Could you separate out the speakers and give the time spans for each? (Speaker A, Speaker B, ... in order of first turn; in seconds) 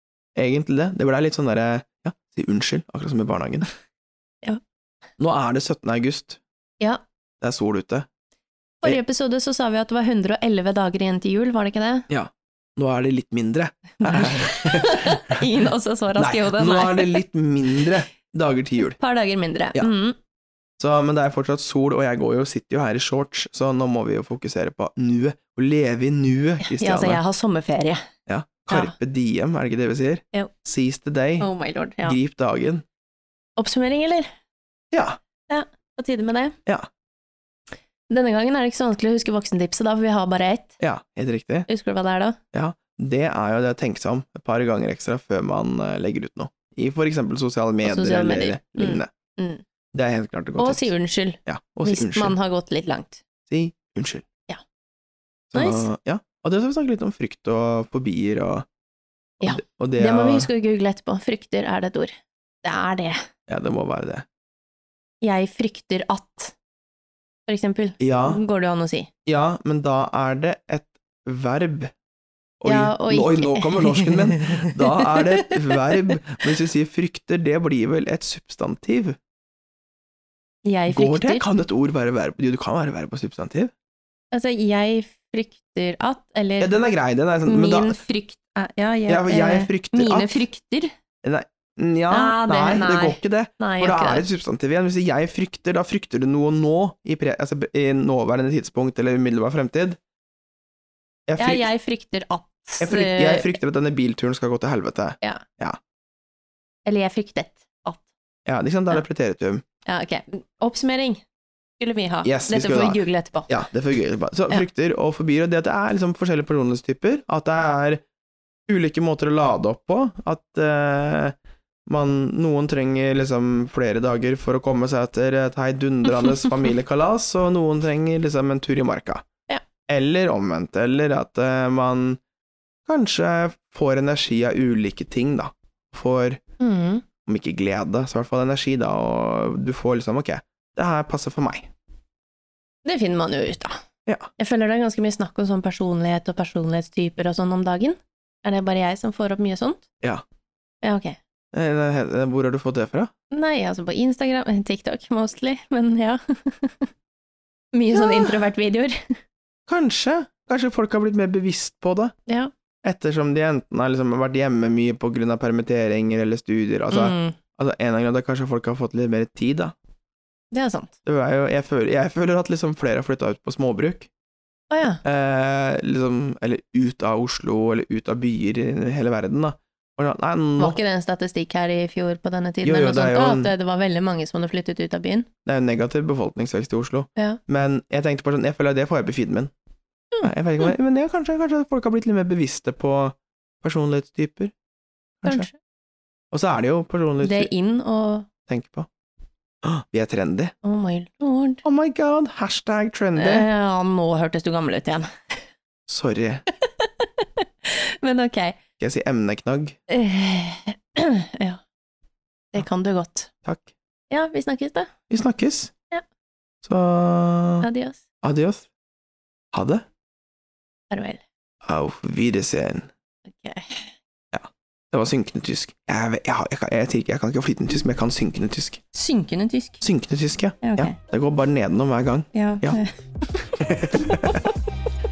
Speaker A: 0.4-3.7, 5.2-6.4, 7.4-8.1, 12.1-15.4, 16.2-19.0, 20.8-27.2, 28.3-31.5, 32.0-32.8, 34.9-35.2, 40.8-41.7, 42.5-49.1, 49.9-50.9, 51.5-52.4, 53.5-54.3, 55.5-58.7, 59.4-60.5, 63.5-64.3, 68.0-68.4, 69.3-71.9, 72.6-79.2, 80.9-83.7, 86.6-88.0, 89.1-90.4, 91.2-100.0, 101.3-101.7, 102.8-105.8, 108.5-109.6, 112.2-118.0, 118.7-121.4, 121.9-129.2, 129.9-132.2, 132.9-136.4, 137.2-141.7, 151.5-153.1, 157.9-158.3, 159.7-162.1, 162.8-169.8, 171.0-174.1, 175.0-180.8, 182.6-183.5, 185.5-189.5, 190.2-194.5, 195.2-195.5, 196.3-197.5, 198.5-198.9, 199.6-200.5, 201.6-203.5, 205.9-206.4, 208.8-209.8, 213.4-213.7, 215.1-215.7, 216.6-217.7, 218.2-218.7, 219.5-219.8, 221.6-222.9, 224.3-228.8, 229.8-232.8, 233.6-234.4
Speaker B: 8.8-12.1, 14.0-17.2, 18.9-20.2, 26.6-28.0, 28.7-28.9, 31.4-32.2, 33.6-34.3, 35.5-36.6, 38.1-40.8, 41.7-42.4, 47.9-49.6, 50.6-53.2, 55.5-55.9, 59.4-63.2, 65.2-66.5, 67.5-69.1, 72.7-76.1, 80.7-81.4, 84.3-86.7, 87.5-90.9, 92.1-94.3, 101.4-103.6, 106.9-108.1, 109.9-111.2, 111.8-113.5, 136.6-137.0, 142.8-143.8, 144.4-149.8, 150.8-151.2, 153.3-156.9, 157.7-159.2, 166.9-167.4, 170.5-170.9, 174.7-175.0, 180.6-185.3, 195.3-195.6, 197.2-198.3, 200.6-201.6, 203.2-205.1, 206.6-208.6, 209.9-211.6, 212.5-213.3, 214.1-214.9, 217.6-218.0, 220.9-221.2, 223.3-223.9, 228.9-229.8, 230.6-231.0, 232.3-232.9